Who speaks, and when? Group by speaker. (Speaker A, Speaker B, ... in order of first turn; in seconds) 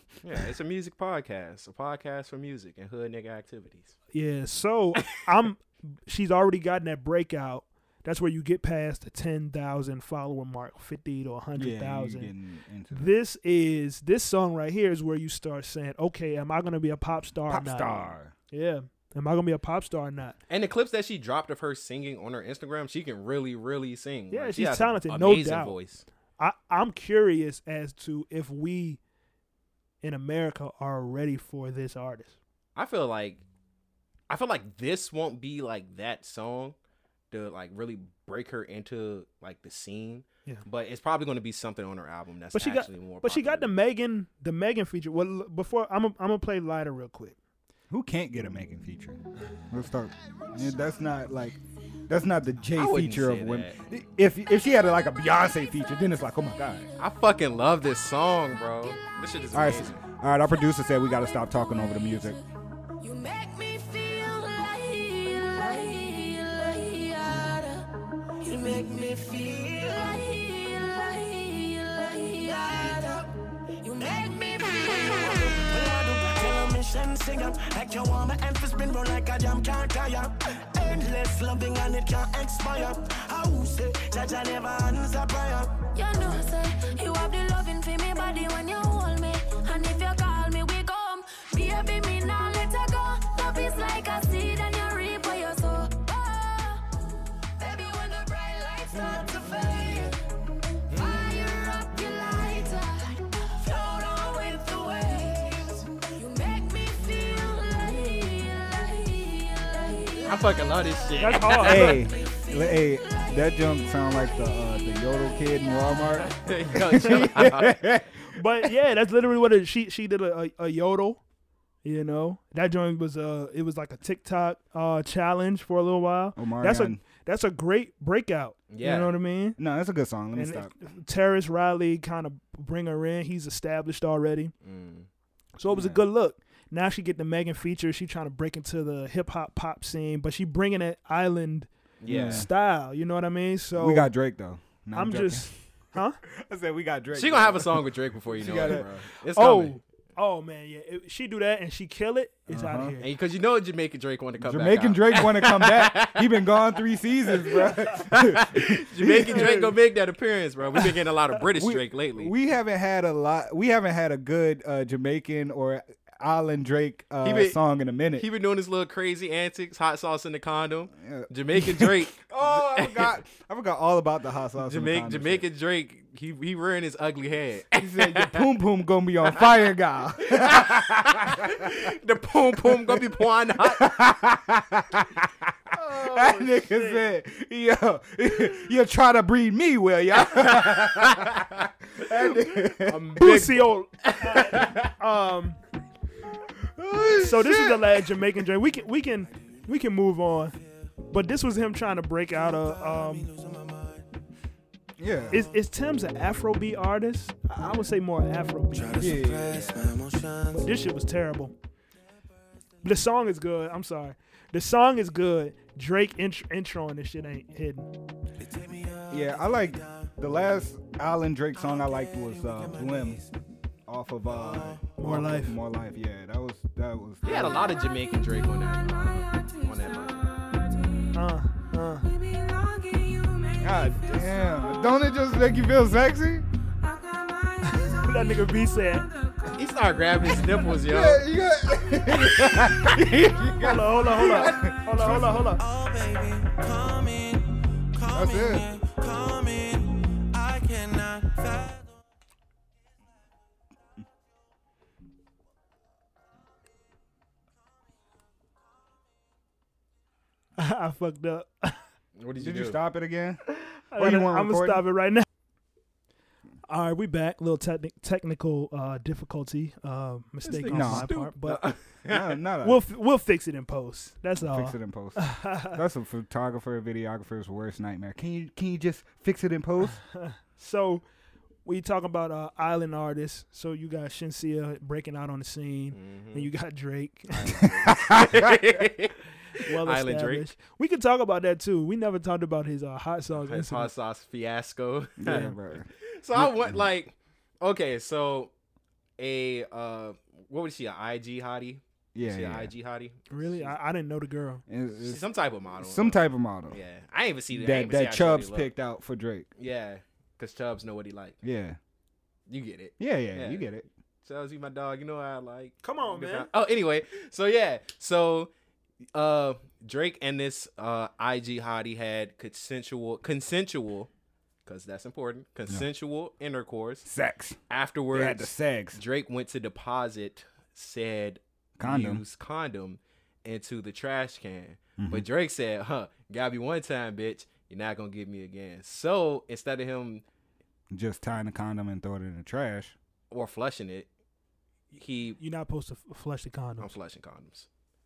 Speaker A: 0.2-4.0, 20.5-26.1, 32.8-33.4, 34.3-36.8, 37.3-43.7, 52.8-53.8, 57.0-60.0, 110.3-112.0, 116.2-117.8, 128.7-129.2, 134.6-135.1, 142.0-142.5, 147.1-149.8, 153.0-156.6, 157.4-162.3, 167.2-167.6, 168.2-173.2, 174.6-178.5, 179.3-179.5, 180.2-184.1, 190.2-194.9, 227.2-230.3, 239.6-241.3, 242.1-243.5, 262.2-262.8, 270.4-272.4, 285.9-286.5, 287.4-290.5, 293.4-298.5, 299.2-303.7, 305.0-308.7, 309.6-311.4, 312.5-313.7, 314.2-318.5, 319.1-324.1, 324.7-327.1, 327.7-340.2, 343.3-344.1, 344.9-345.4, 346.8-347.7
Speaker B: 4.1-12.3, 12.9-20.4, 24.3-25.8, 26.4-29.0, 30.0-32.4, 42.5-47.4, 111.2-112.0, 118.3-121.2, 121.8-129.6, 130.3-134.5, 135.6-141.7, 142.2-144.1, 144.9-146.2, 149.3-153.1, 159.3-159.7, 186.5-186.8, 193.2-195.6, 197.2-200.6, 201.1-203.3, 205.3-209.1, 210.5-211.6, 212.8-217.9, 225.0-225.6, 231.1-232.1, 237.6-239.1, 243.6-245.6, 260.6-261.8, 263.9-265.3, 266.7-271.6, 272.6-275.8, 280.1-281.0, 281.6-287.7, 289.7-293.9, 303.3-304.6, 315.8-316.5, 345.4-346.9
Speaker C: 11.6-13.1, 17.5-18.3, 47.9-56.9, 59.5-62.4, 111.6-118.7, 126.4-127.0, 129.6-130.7, 135.7-136.0, 142.1-142.5, 143.8-145.6, 146.2-148.9, 152.5-153.0, 154.4-159.7, 161.5-168.3, 170.9-175.5, 177.7-181.8, 182.6-193.5, 196.7-198.2, 205.0-205.4, 208.9-210.0, 219.1-223.2, 223.9-227.9, 233.6-236.5, 240.6-245.5, 248.1-248.7, 262.4-264.8, 270.7-271.1, 272.1-272.8, 274.4-280.0, 287.6-288.5, 295.2-296.9, 302.1-302.7, 304.7-305.2, 305.8-306.8, 307.5-309.5, 311.4-311.8, 313.0-313.9, 327.1-327.6, 328.1-329.0, 331.8-332.2, 335.0-335.3, 340.9-342.9
Speaker D: 63.0-67.9, 68.4-73.3, 73.8-76.8, 85.9-96.8, 97.6-100.2, 100.9-113.3, 232.2-234.0, 237.0-238.0
Speaker E: 68.7-69.0, 74.1-85.7, 202.9-203.8, 208.9-210.2, 218.7-219.3, 246.0-247.0, 248.0-249.7, 250.4-251.6